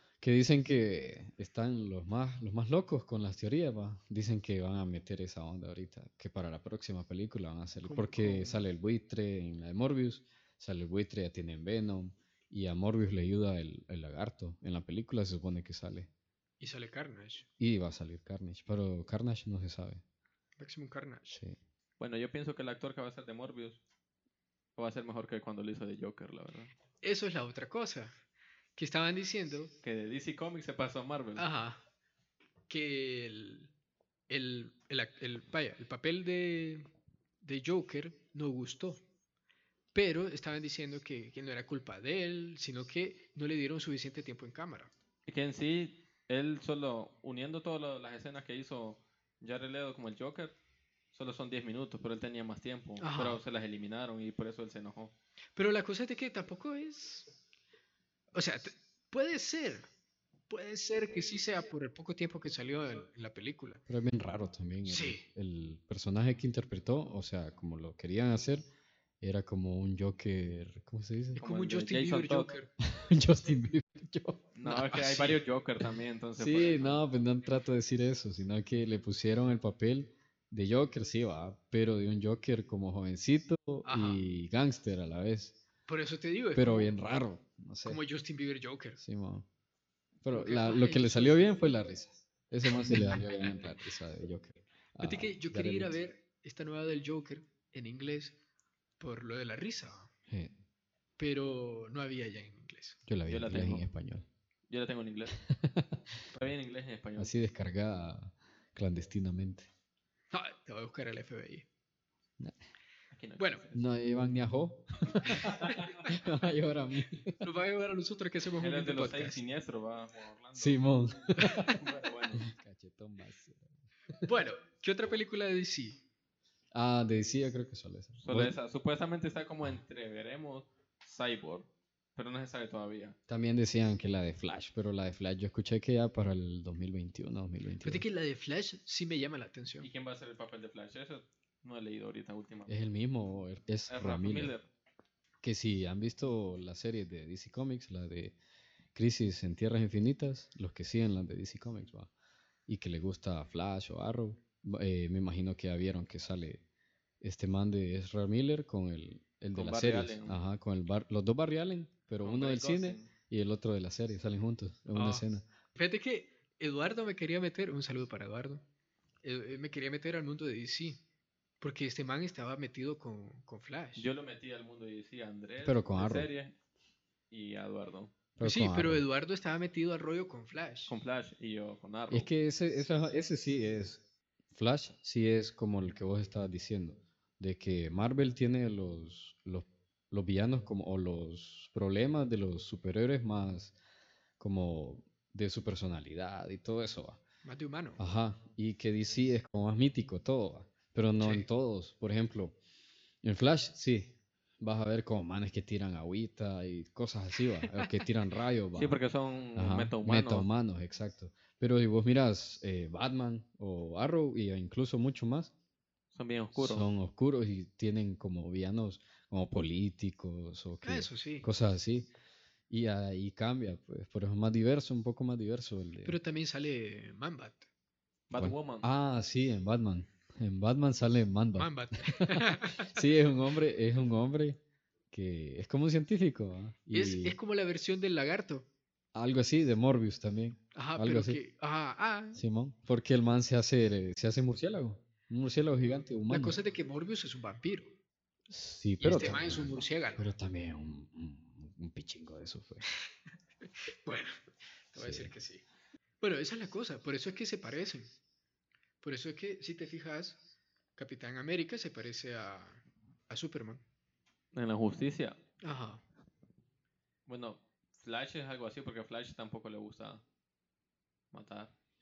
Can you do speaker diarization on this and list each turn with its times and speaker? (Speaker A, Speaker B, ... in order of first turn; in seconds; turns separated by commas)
Speaker A: 0.2-16.1, Speaker B: 7.8-8.6, Speaker B: 16.6-17.5, Speaker A: 17.6-20.0, Speaker B: 20.6-21.4, Speaker A: 21.3-21.6, Speaker C: 22.0-23.8, Speaker C: 24.8-26.7, Speaker B: 27.0-28.1, Speaker B: 28.8-29.7, Speaker C: 29.8-31.4, Speaker B: 31.4-31.8, Speaker B: 32.7-33.7, Speaker B: 34.3-36.9, Speaker B: 37.4-39.0, Speaker B: 39.9-44.9, Speaker C: 45.2-50.6, Speaker C: 51.1-55.1, Speaker B: 53.0-53.4, Speaker B: 55.5-57.3, Speaker B: 58.3-59.9, Speaker B: 60.5-63.8, Speaker A: 63.9-68.7, Speaker B: 64.8-65.2, Speaker A: 69.2-71.4, Speaker B: 71.3-72.7, Speaker C: 71.4-72.5, Speaker A: 72.8-74.5, Speaker C: 74.5-77.0, Speaker B: 74.6-75.4, Speaker A: 76.4-85.6, Speaker B: 83.8-84.2, Speaker B: 85.9-86.9, Speaker A: 86.5-88.0, Speaker B: 87.8-89.0, Speaker A: 89.0-89.5, Speaker A: 90.2-96.0, Speaker B: 90.3-91.4, Speaker B: 92.8-93.2, Speaker B: 95.0-98.4, Speaker B: 99.0-100.1, Speaker A: 100.3-100.5, Speaker B: 101.2-103.0, Speaker A: 103.0-104.3, Speaker C: 103.2-103.8, Speaker C: 104.7-105.4, Speaker A: 105.5-106.0, Speaker C: 106.3-107.3, Speaker A: 107.2-109.7, Speaker B: 110.3-111.7, Speaker C: 113.1-113.8, Speaker B: 113.4-113.6, Speaker A: 113.7-117.4, Speaker B: 115.2-115.5, Speaker C: 115.3-116.1, Speaker B: 117.4-119.4, Speaker C: 118.6-120.9, Speaker A: 120.5-121.8, Speaker C: 121.6-122.4, Speaker A: 122.4-123.7, Speaker B: 124.2-126.0, Speaker A: 126.7-128.5, Speaker C: 128.2-133.2, Speaker A: 133.3-138.0, Speaker B: 137.8-139.9, Speaker C: 139.8-142.8, Speaker A: 142.7-144.5, Speaker C: 143.9-144.7, Speaker A: 145.4-148.3, Speaker A: 148.9-152.1, Speaker A: 152.7-156.6, Speaker A: 157.2-165.5, Speaker C: 159.5-160.3, Speaker C: 162.2-163.1, Speaker B: 164.9-168.6, Speaker B: 169.2-171.0, Speaker B: 171.6-174.1, Speaker C: 173.9-176.5, Speaker A: 175.6-176.3, Speaker C: 177.3-178.1, Speaker A: 178.3-179.0, Speaker B: 178.4-180.9, Speaker C: 180.9-182.3, Speaker A: 182.1-193.7, Speaker A: 194.4-197.2, Speaker B: 197.4-198.0, Speaker A: 198.0-202.6, Speaker B: 201.2-201.4, Speaker A: 203.2-209.0, Speaker C: 208.8-210.4, Speaker A: 209.6-215.5, Speaker C: 216.1-216.8, Speaker A: 216.5-222.1, Speaker B: 220.8-221.5, Speaker A: 222.7-226.2, Speaker B: 226.0-227.7, Speaker C: 228.3-228.9, Speaker A: 228.3-234.6, Speaker B: 231.6-233.1, Speaker A: 235.1-237.4, Speaker B: 236.9-238.7, Speaker A: 239.1-241.4, Speaker B: 240.7-242.4, Speaker A: 242.3-246.6, Speaker B: 246.3-247.9, Speaker A: 248.5-252.8, Speaker B: 249.0-250.2, Speaker B: 254.0-255.6, Speaker A: 254.9-255.3, Speaker B: 256.2-258.1, Speaker B: 259.0-260.4, Speaker B: 261.0-263.8, Speaker C: 264.5-265.4, Speaker B: 265.6-266.0, Speaker C: 267.2-270.2, Speaker C: 271.3-271.7